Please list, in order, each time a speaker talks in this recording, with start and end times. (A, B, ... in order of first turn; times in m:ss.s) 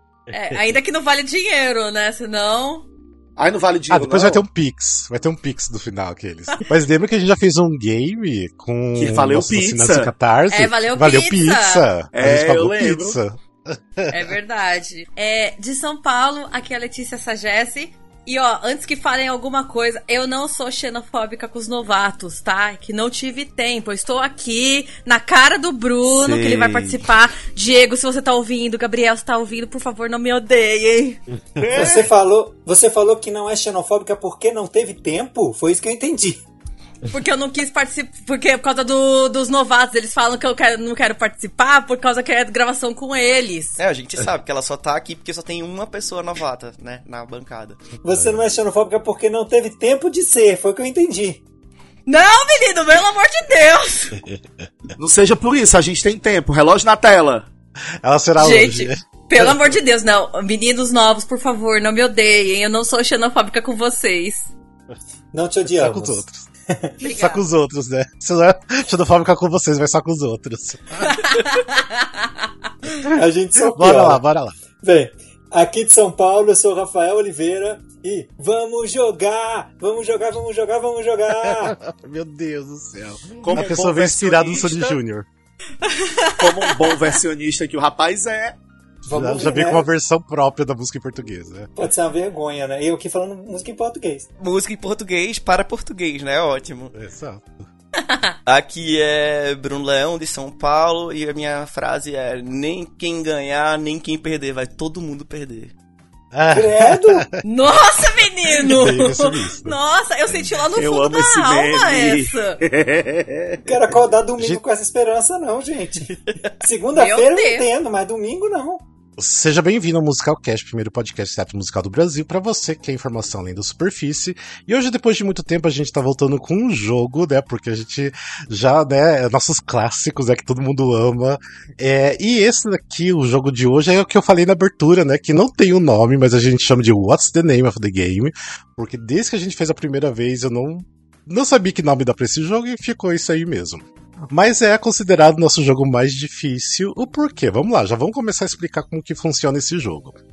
0:00.3-0:00.8 A
0:00.3-0:02.8 B
0:03.4-0:04.4 C
0:03.9-0:14.3 A
0:08.9-0:10.1 C
0:10.5-0:11.9 B
0:12.1-0:13.2 C
0:14.1-0:31.2 B
0:26.1-0:27.0 D
0:31.6-0:32.1 C
0:31.7-0:36.4 E
0:37.1-0:43.8 B
0:43.8-0:47.8 D
0:48.0-0:51.4 E
0:48.1-0:48.4 A
0:52.0-0:54.2 B
0:54.2-0:54.6 A
0:55.0-0:57.4 C
0:58.0-0:59.8 A
0:58.4-1:04.5 B
1:05.3-1:06.9 E
1:05.6-1:06.4 A
1:07.0-1:07.4 B
1:07.0-1:11.2 A
1:11.0-1:12.4 B
1:13.1-1:14.2 E
1:13.5-1:14.5 A
1:14.8-1:21.8 E
1:21.3-1:25.3 A
1:23.4-1:25.0 C
1:25.8-1:26.9 B
1:26.4-1:28.6 C
1:29.0-1:29.9 E
1:29.1-1:31.7 A
1:31.8-1:34.3 E
1:34.4-1:36.9 D
1:36.9-1:37.6 A
1:38.0-1:38.3 B
1:38.4-1:45.7 D
1:46.3-1:47.4 A
1:46.5-1:47.3 E
1:47.4-1:52.6 B
1:48.5-1:49.7 A
1:50.7-1:53.7 C
1:53.6-1:58.8 E
1:56.9-1:57.6 B
1:59.2-2:30.2 A